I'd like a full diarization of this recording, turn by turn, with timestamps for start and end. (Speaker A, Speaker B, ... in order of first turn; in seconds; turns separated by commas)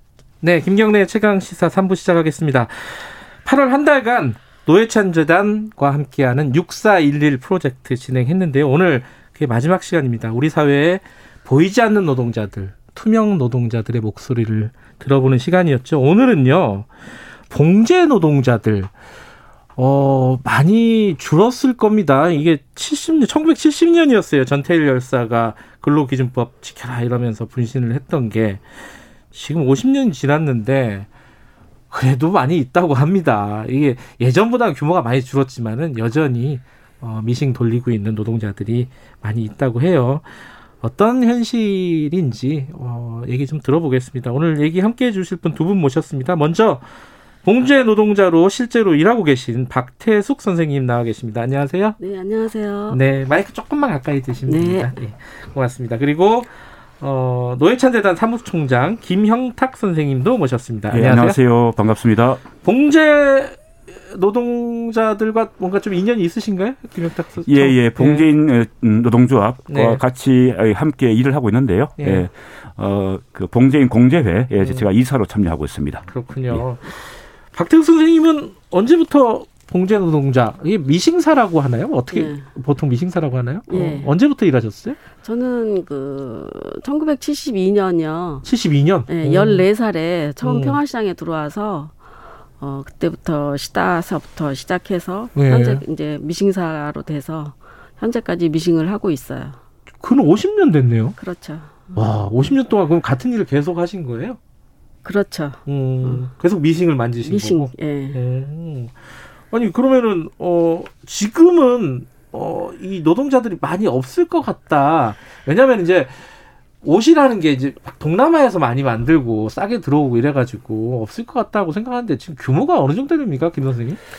Speaker A: 0.4-16.9, Speaker A: 17.5-18.9, Speaker A: 19.8-28.6, Speaker A: 29.3-31.1, Speaker A: 31.9-40.3, Speaker A: 40.8-46.8, Speaker A: 47.4-52.0, Speaker B: 52.0-53.0, Speaker A: 52.9-61.4, Speaker B: 54.5-54.9, Speaker C: 60.9-62.4, Speaker A: 62.6-68.3, Speaker C: 67.5-76.6, Speaker A: 69.7-70.0, Speaker A: 72.0-72.3, Speaker A: 74.6-74.9, Speaker A: 76.0-85.0, Speaker B: 82.1-82.5, Speaker B: 83.7-84.1, Speaker B: 85.2-88.4, Speaker A: 88.4-89.7, Speaker B: 89.1-91.9, Speaker A: 90.4-90.8, Speaker B: 92.6-99.6, Speaker A: 95.3-95.8, Speaker A: 100.0-101.2, Speaker B: 101.2-102.5, Speaker A: 101.9-104.4, Speaker B: 105.0-106.2, Speaker A: 105.7-109.0, Speaker B: 107.2-108.2, Speaker A: 109.5-116.2, Speaker A: 116.8-124.0